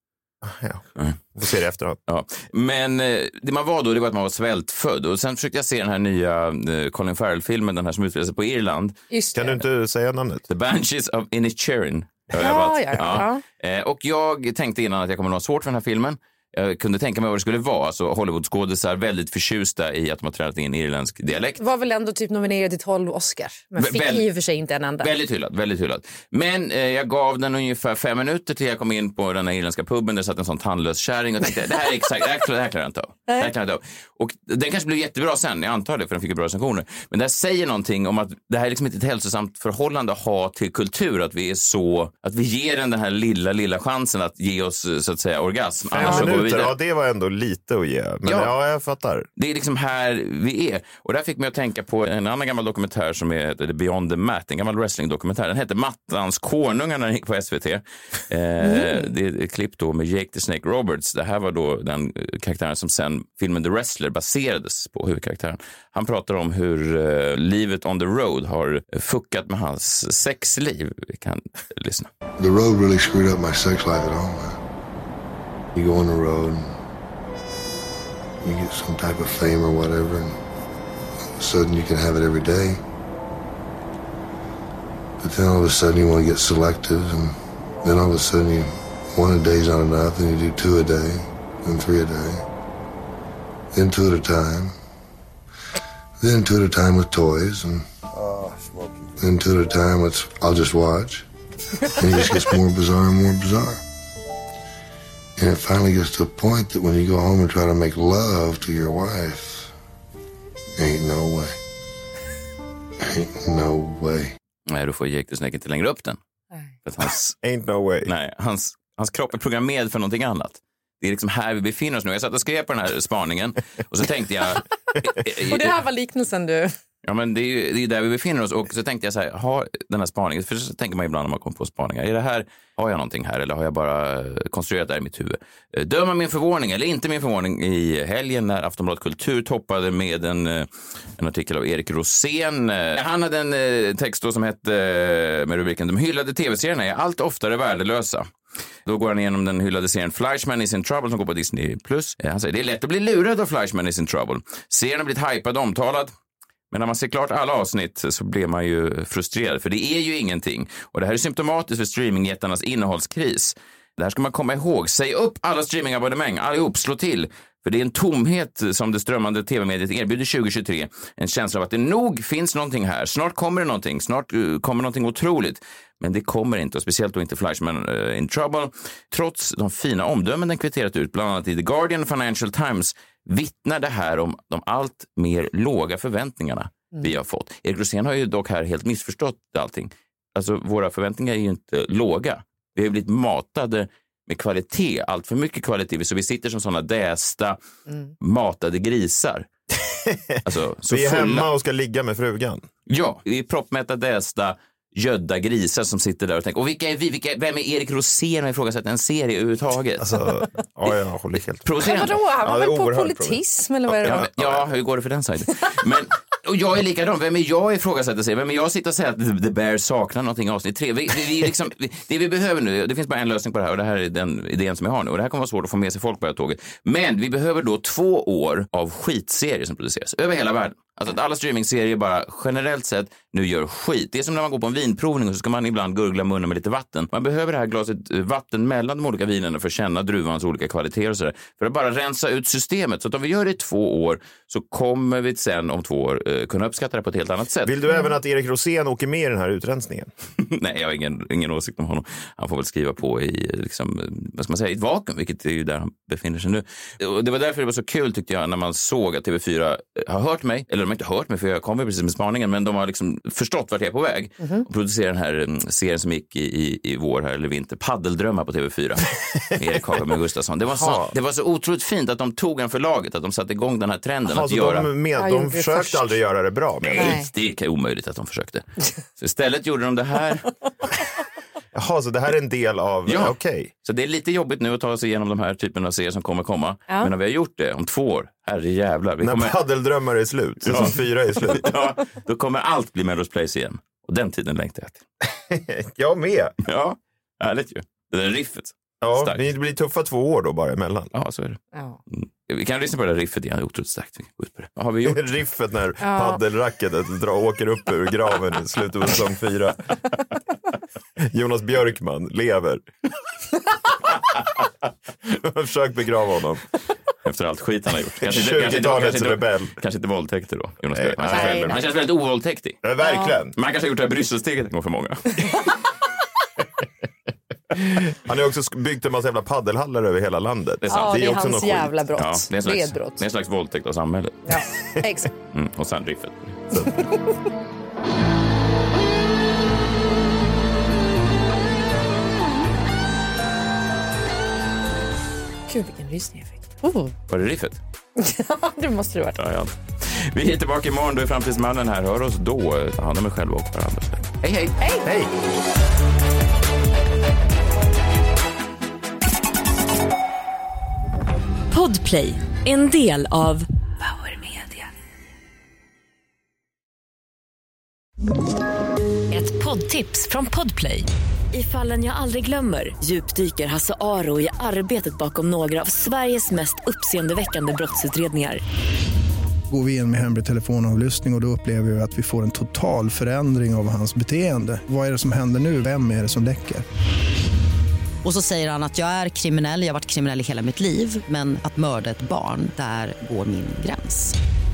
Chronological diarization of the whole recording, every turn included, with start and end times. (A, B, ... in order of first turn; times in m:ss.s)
0:00.4-0:02.0 A
0:02.1-0:09.0 B
0:09.1-0:09.6 C
0:09.4-0:10.4 A
0:10.5-0:21.6 B
0:12.4-0:13.4 C
0:21.6-0:25.1 C
0:23.8-0:24.3 B
0:25.0-0:46.8 B
0:45.9-0:49.3 A
0:48.3-0:48.5 B
0:49.4-1:12.1 B
0:58.6-0:59.1 C
1:12.4-1:14.6 D
1:15.8-1:16.8 D
1:18.4-1:20.4 D
1:21.3-1:22.8 D
1:25.2-1:32.4 D
1:33.7-1:34.8 D
1:36.2-1:37.8 D
1:39.2-1:41.2 D
1:41.8-1:43.8 D
1:45.4-1:49.7 D
1:50.8-1:51.6 D
1:53.0-1:54.3 D
1:54.7-1:56.2 B
1:56.8-1:57.4 B
1:57.4-1:58.1 A
1:58.1-2:05.8 B
2:05.2-2:06.8 C
2:07.0-2:28.3 B
2:28.9-2:36.1 B
2:36.7-3:17.6 B
3:18.2-3:19.5 B
3:19.8-3:22.6 A
3:20.4-3:21.5 B
3:22.9-3:30.1 B
3:30.0-3:34.7 A
3:31.6-3:32.2 B
3:31.8-3:34.3 C
3:34.0-4:07.8 B
4:07.6-4:10.1 A
4:10.4-4:34.9 B
4:30.7-4:31.1 A
4:34.3-4:37.2 A
4:35.2-4:36.2 C
4:36.9-4:38.6 B
4:37.0-4:37.3 C
4:39.2-4:40.5 B
4:41.7-4:43.7 A
4:43.1-4:49.6 B
4:49.2-4:51.8 A
4:50.6-4:55.0 B
4:55.4-4:56.6 A
4:56.6-4:59.4 B
4:59.0-5:01.1 A
5:01.1-5:01.6 B
5:01.7-5:02.0 C
5:02.2-5:05.4 B
5:05.0-5:09.8 A
5:06.0-5:06.4 C
5:11.2-5:12.8 A
5:15.2-5:16.6 A
5:17.2-5:22.9 B
5:18.2-5:19.8 A
5:21.0-5:21.8 A
5:21.3-5:21.8 C
5:22.8-5:23.6 A
5:23.0-5:23.4 C
5:23.6-5:25.7 B
5:27.7-5:32.0 A
5:30.8-5:31.2 B
5:30.9-5:33.2 C
5:32.2-5:34.4 B
5:34.5-5:35.3 C
5:35.5-5:36.8 B
5:36.8-5:37.3 C
5:45.7-5:47.2 C
5:47.3-5:47.8 B
5:48.2-5:49.4 C
5:49.4-5:55.3 B
5:54.8-5:55.1 C
6:01.7-6:04.9 E
6:09.3-6:18.6 E
6:19.7-6:26.8 F
6:28.2-6:34.4 G